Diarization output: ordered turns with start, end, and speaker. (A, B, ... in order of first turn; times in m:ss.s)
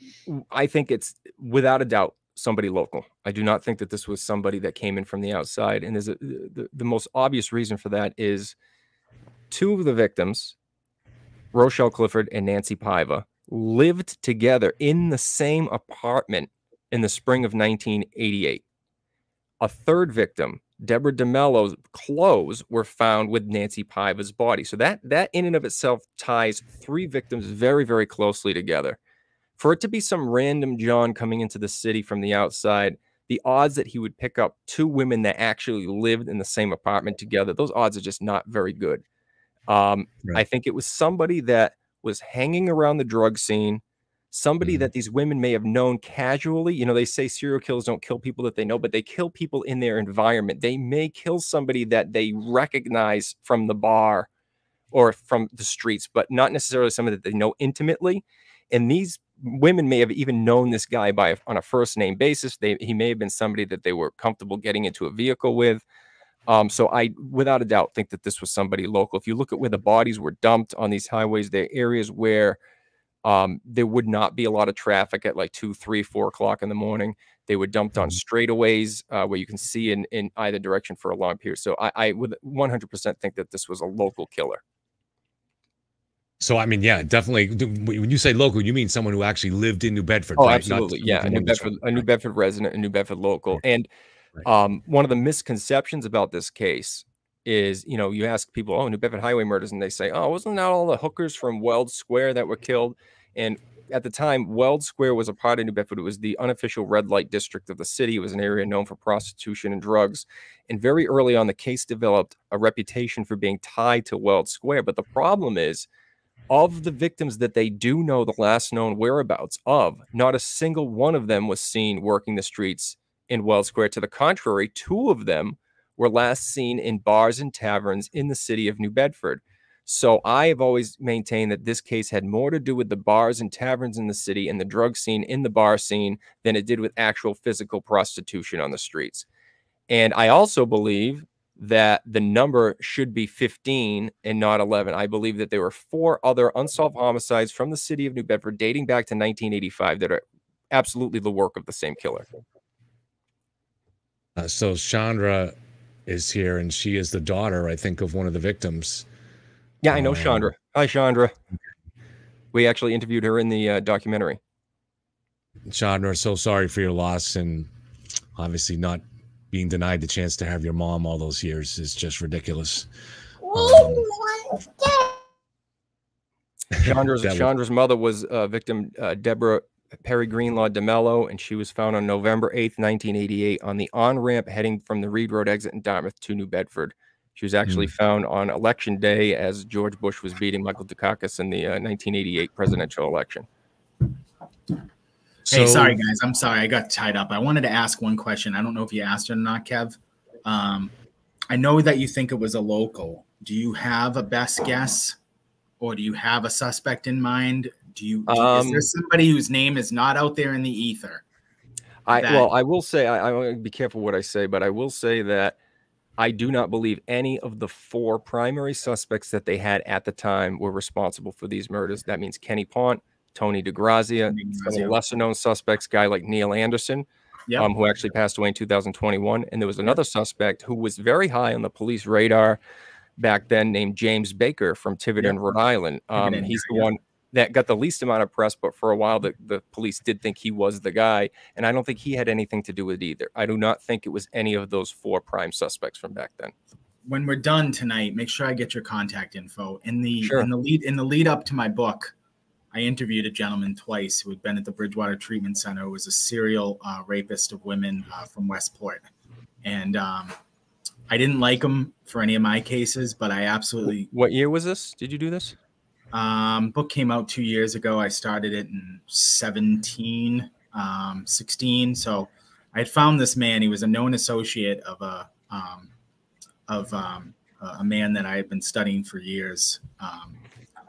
0:00.3-0:08.5 A
0:09.5-0:10.5 A
0:11.5-0:18.6 A
0:19.6-0:29.0 A
0:29.6-0:39.0 A
0:39.7-0:54.3 A
0:44.6-0:44.9 B
0:54.9-1:05.8 A
1:06.5-1:12.6 A
1:13.2-1:24.6 A
1:26.4-1:32.1 B
1:30.4-1:33.9 A
1:34.4-1:55.9 A
1:56.5-2:19.2 A
2:19.9-2:32.3 A
2:34.4-2:35.5 B
2:36.1-2:39.0 B
2:39.8-2:41.3 A
2:39.9-2:40.5 B
2:42.5-2:44.4 A
2:45.7-2:47.7 B
2:48.4-2:52.9 B
2:53.5-2:54.0 B
2:56.8-2:57.5 B
2:56.8-3:13.4 A
3:07.6-3:07.9 B
3:15.4-3:16.0 B
3:15.5-3:20.9 C
3:21.5-3:25.2 C
3:25.8-3:31.2 C
3:28.3-3:28.9 A
3:32.1-3:35.6 A
3:32.1-3:32.5 C
3:36.2-3:52.6 A
3:44.3-3:45.0 C
3:53.2-4:06.5 A
3:56.2-3:56.9 C
4:07.0-4:12.1 C
4:10.2-4:10.5 A
4:12.7-4:19.0 C
4:19.6-4:20.3 C
4:21.1-4:24.1 C
4:24.0-4:25.6 A
4:26.1-4:35.9 C
4:36.7-4:40.4 C